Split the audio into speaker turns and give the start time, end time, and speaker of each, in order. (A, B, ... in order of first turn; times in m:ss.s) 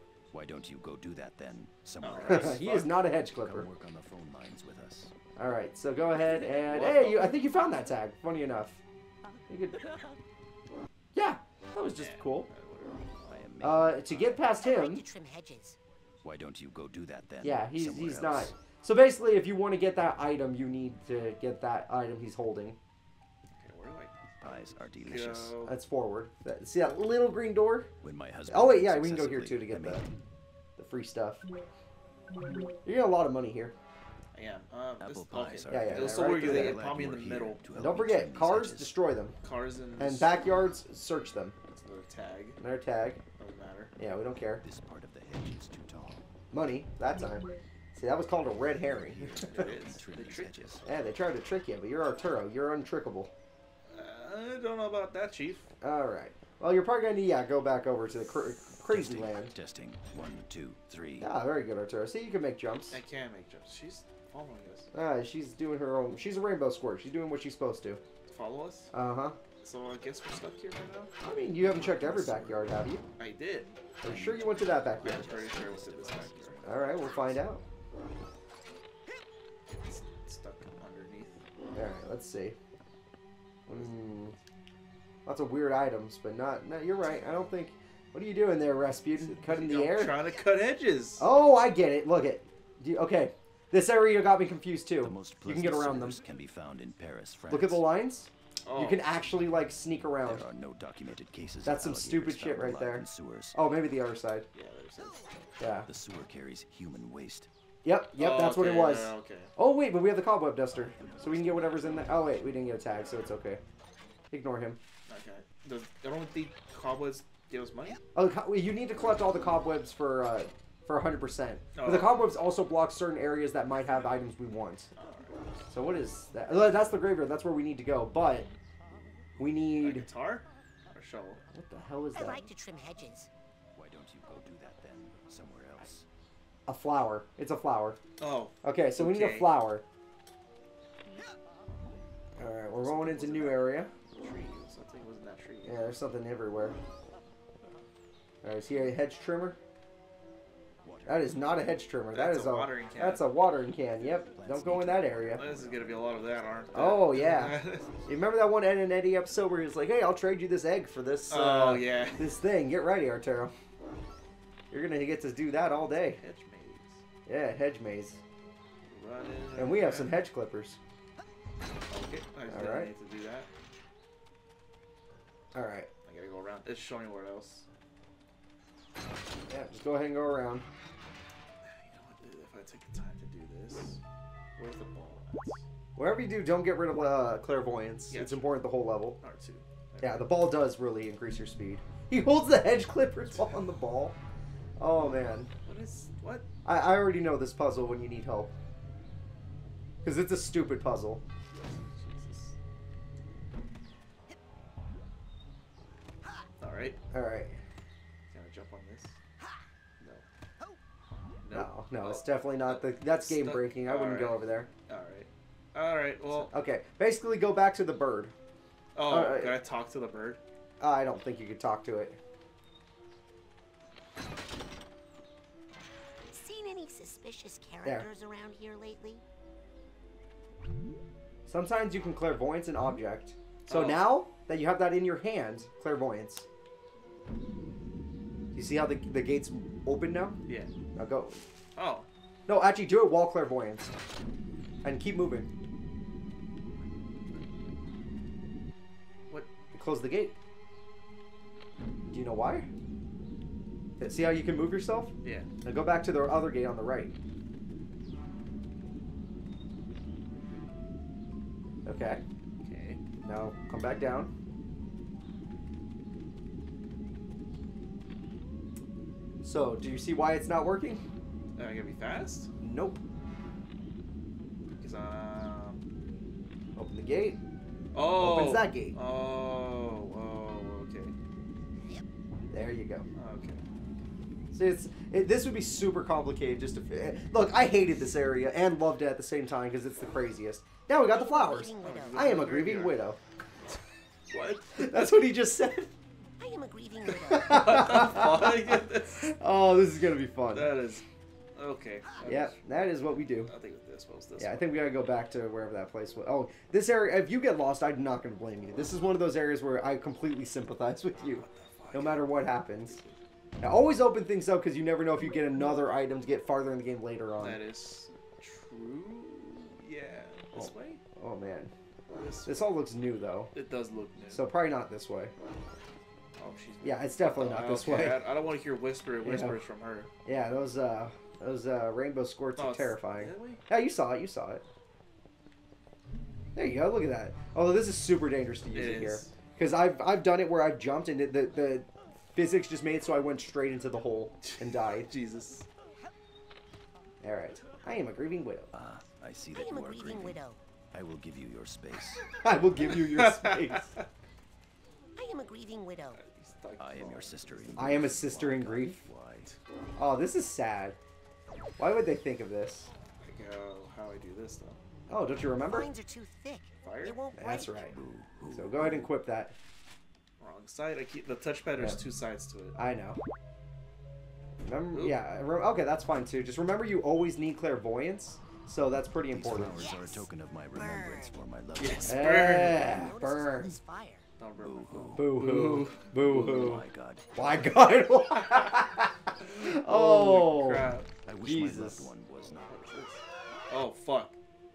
0:00.3-0:05.1 A
0:02.0-0:02.9 B
0:02.2-0:03.7 C
0:05.4-0:08.8 C
0:06.2-0:07.4 B
0:09.5-0:09.8 C
0:11.1-0:12.5 C
0:11.9-0:13.5 B
0:13.3-0:14.4 A
0:13.6-0:15.0 C
0:14.6-0:15.8 D
0:16.2-0:18.5 A
0:17.4-0:22.8 C
0:23.5-0:24.1 B
0:24.4-0:25.6 A
0:25.0-0:25.7 B
0:25.6-0:27.9 C
0:28.0-0:30.1 A
0:28.5-0:30.0 C
0:30.8-0:31.4 C
0:32.8-0:33.7 C
0:34.3-0:37.6 B
0:35.0-0:38.9 A
0:35.7-0:36.8 C
0:37.7-0:39.4 C
0:39.4-0:40.6 B
0:40.0-0:41.6 C
0:41.7-0:42.6 B
0:42.6-0:43.2 C
0:43.4-0:43.9 B
0:44.0-0:44.6 C
0:44.6-0:46.2 A
0:46.5-0:49.7 C
0:48.8-0:51.0 A
0:49.5-0:50.8 B
0:50.8-0:53.3 C
0:53.9-0:55.7 B
0:55.8-0:59.5 C
0:58.9-1:01.3 A
1:01.2-1:03.0 C
1:02.9-1:04.9 B
1:04.9-1:08.0 C
1:08.3-1:08.9 B
1:08.9-1:09.4 C
1:09.6-1:11.1 B
1:11.2-1:13.0 C
1:11.3-1:12.8 A
1:13.2-1:13.7 B
1:14.0-1:15.3 C
1:14.0-1:17.5 A
1:15.0-1:16.6 B
1:16.6-1:17.6 C
1:19.6-1:21.4 B
1:21.7-1:22.6 C
1:23.7-1:24.4 C
1:25.2-1:30.2 C
1:29.3-1:31.3 B
1:31.2-1:36.2 C
1:35.0-1:37.9 A
1:37.5-1:40.4 C
1:38.6-1:39.1 B
1:40.2-1:43.6 A
1:41.6-1:44.5 C
1:44.5-1:45.4 B
1:45.6-1:45.9 C
1:45.8-1:47.5 A
1:47.8-1:53.6 C
1:48.2-1:49.5 B
1:50.8-1:52.1 A
1:54.3-1:54.8 C
1:55.1-1:58.0 B
1:58.1-2:04.9 C
2:01.7-2:02.2 B
2:05.0-2:05.5 B
2:05.7-2:08.5 C
2:09.4-2:10.1 C
2:09.7-2:11.4 B
2:11.5-2:12.5 C
2:12.1-2:13.3 D
2:13.7-2:16.0 A
2:16.7-2:18.0 C
2:18.2-2:19.6 B
2:18.6-2:19.8 C
2:22.4-2:23.9 C
2:22.8-2:25.8 B
2:25.6-2:26.8 C
2:28.4-2:29.6 C
2:30.8-2:31.5 A
2:31.0-2:35.5 C
2:32.1-2:33.2 B
2:34.0-2:37.0 A
2:35.3-2:37.9 B
2:36.7-2:43.5 C
2:41.3-2:42.4 B
2:44.7-2:46.2 C
2:46.2-2:47.0 B
2:47.2-2:48.2 C
2:48.9-2:50.2 B
2:49.6-2:50.8 C
2:51.9-2:53.5 B
2:52.5-2:52.9 C
2:55.5-2:55.9 C
2:56.0-2:57.6 B
2:59.5-3:00.6 C
3:01.6-3:04.0 B
3:04.6-3:05.6 B
3:06.0-3:09.2 C
3:08.1-3:08.6 B
3:09.2-3:10.3 B
3:10.0-3:14.2 C
3:14.8-3:15.5 C
3:15.6-3:16.5 B
3:16.6-3:18.5 C
3:20.0-3:21.2 C
3:21.5-3:22.5 B
3:26.6-3:27.0 B
3:27.1-3:27.6 C
3:28.3-3:29.2 B
3:30.0-3:30.2 B
3:31.4-3:36.5 B
3:31.5-3:34.7 C
3:36.4-3:38.3 C
3:38.9-3:40.4 B
3:39.1-3:39.6 C
3:40.8-3:42.2 C
3:46.3-3:49.2 D
3:51.5-3:56.4 C
3:53.6-3:54.1 B
3:58.5-4:00.4 C
4:01.0-4:01.4 C
4:01.8-4:02.1 B
4:02.5-4:03.9 C
4:04.8-4:05.5 C
4:09.7-4:10.4 C
4:12.1-4:12.7 C
4:14.0-4:17.1 C
4:15.2-4:15.5 B
4:21.8-4:22.2 C
4:22.6-4:23.0 B
4:23.2-4:24.3 C
4:29.4-4:31.0 C
4:31.6-4:32.5 B
4:32.6-4:33.0 C
4:34.8-4:35.8 B
4:36.8-4:37.4 C
4:37.9-4:41.1 B
4:38.1-4:39.0 C
4:42.5-4:43.0 C
4:43.1-4:43.6 B
4:44.5-4:53.2 C
4:51.1-4:52.5 D
4:51.8-4:53.0 B
4:54.3-4:55.2 B
4:54.7-4:55.9 C
4:56.4-4:57.8 D
4:57.2-5:00.8 C
4:57.4-4:59.3 B
5:00.5-5:04.8 B
5:02.2-5:03.5 C
5:04.4-5:13.0 C
5:11.2-5:13.2 B
5:13.6-5:17.6 C
5:17.4-5:21.0 B
5:20.5-5:21.7 C
5:22.1-5:22.8 B
5:22.4-5:23.5 C
5:23.5-5:24.4 B
5:24.3-5:25.3 C
5:26.4-5:30.1 B
5:26.8-5:28.2 C
5:29.2-5:29.6 C
5:30.2-5:34.6 C
5:32.6-5:33.6 B
5:36.5-5:45.1 C
5:38.7-5:39.3 B
5:44.4-5:45.7 B
5:47.2-5:48.7 C
5:48.7-5:50.4 A
5:49.5-5:50.6 D
5:50.9-5:52.2 A
5:52.4-5:54.0 C
5:52.9-5:54.1 B
5:55.2-5:56.2 D
5:56.1-5:58.1 B
5:56.8-5:59.5 A
5:57.8-5:59.0 C
6:00.0-6:01.0 C
6:01.8-6:02.9 C
6:03.2-6:04.8 B
6:05.1-6:05.9 C
6:05.6-6:08.0 D
6:06.8-6:07.2 B
6:07.4-6:08.0 C
6:07.9-6:09.1 A
6:08.5-6:09.5 C
6:10.4-6:12.8 B
6:12.7-6:13.2 C
6:14.6-6:19.8 C
6:14.9-6:15.2 B
6:19.3-6:22.5 A
6:19.8-6:24.2 D
6:21.8-6:23.0 B
6:22.1-6:23.8 C
6:24.4-6:26.8 B
6:24.6-6:25.5 A
6:25.1-6:26.8 C
6:26.2-6:27.6 A
6:27.3-6:30.9 C
6:29.4-6:31.1 B
6:31.2-6:32.9 A
6:31.4-6:32.1 C
6:32.4-6:34.4 B